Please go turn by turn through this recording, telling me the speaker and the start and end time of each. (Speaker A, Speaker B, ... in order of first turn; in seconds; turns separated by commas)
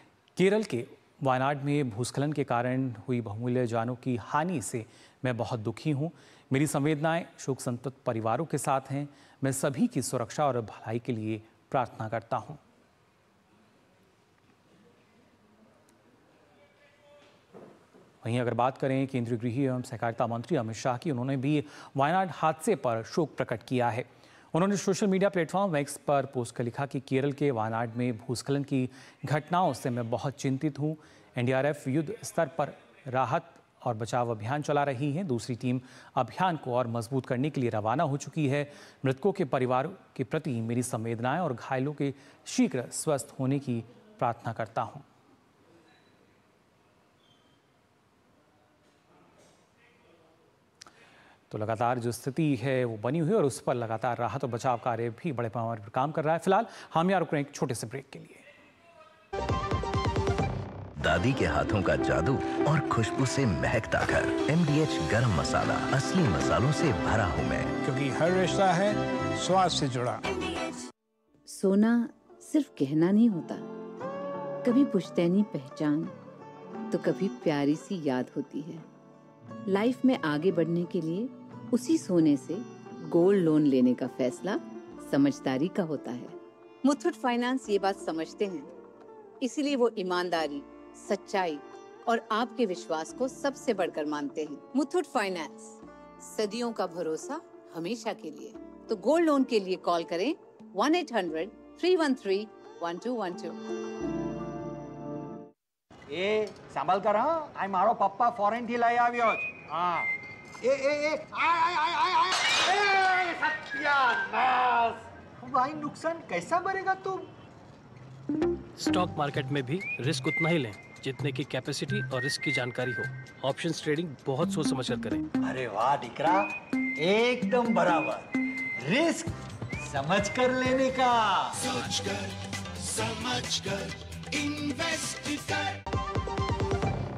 Speaker A: 0.4-12.6, Speaker A: 18.2-45.0, Speaker A: 51.5-58.4, Speaker B: 61.0-67.7, Speaker C: 67.8-70.2, Speaker D: 71.5-73.7, Speaker D: 74.6-76.1, Speaker D: 76.9-78.8, Speaker D: 79.7-88.7, Speaker D: 89.4-103.6, Speaker E: 106.1-110.1, Speaker E: 110.6-117.3, Speaker F: 118.8-125.2, Speaker E: 125.4-128.3, Speaker E: 128.8-129.3, Speaker E: 129.9-131.8